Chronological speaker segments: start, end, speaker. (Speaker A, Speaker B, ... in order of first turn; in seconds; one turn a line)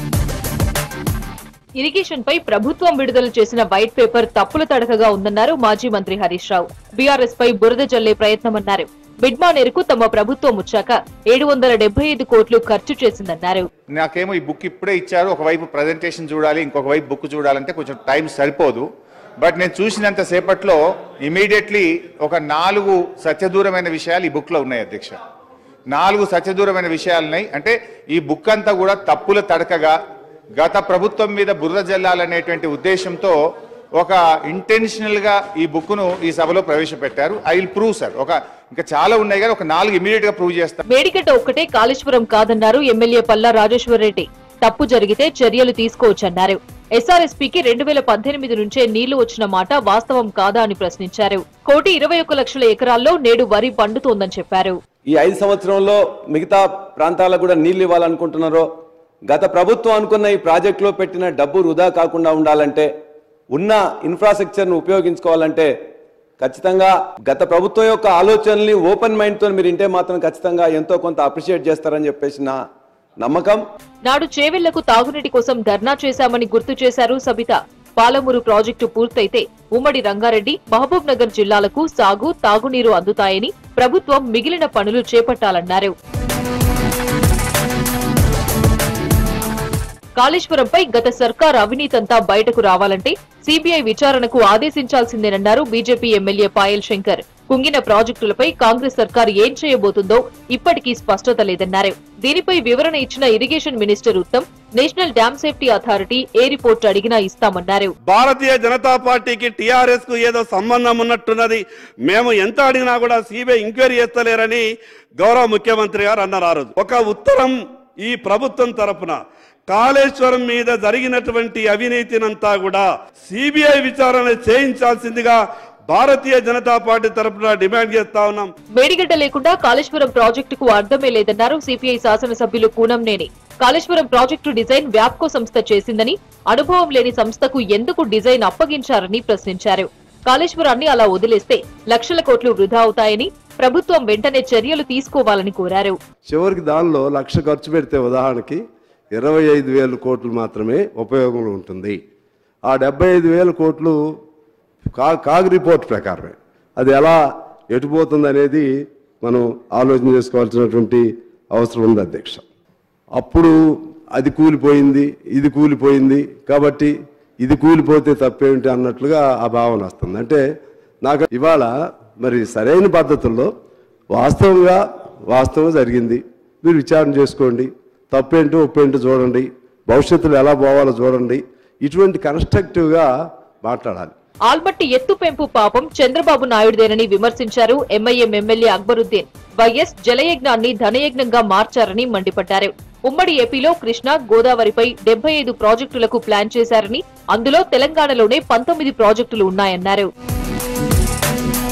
Speaker A: 1.8-13.7
Speaker B: 13.9-18.9
Speaker B: 19.4-25.2
Speaker B: 25.9-30.0
Speaker B: 30.6-33.4
Speaker B: 34.0-40.8
Speaker A: 40.9-54.8
Speaker C: 55.1-58.7
Speaker C: 59.3-62.9
Speaker C: 63.5-65.7
Speaker C: 66.4-72.6
Speaker C: 73.2-73.6
Speaker A: 74.0-85.9
Speaker A: 90.2-107.9
Speaker D: 108.1-114.6
Speaker D: 115.2-128.5
Speaker A: 128.8-146.0
Speaker E: 146.3-148.6
Speaker E: 149.1-152.0
Speaker E: 152.7-154.0
Speaker E: 154.9-157.2
Speaker E: 157.7-158.7
Speaker E: 159.2-162.4
Speaker E: 163.2-163.6
Speaker E: 164.2-170.4
Speaker E: 171.0-173.5
Speaker E: 174.1-183.1
Speaker E: 183.6-184.1
Speaker A: 184.5-200.1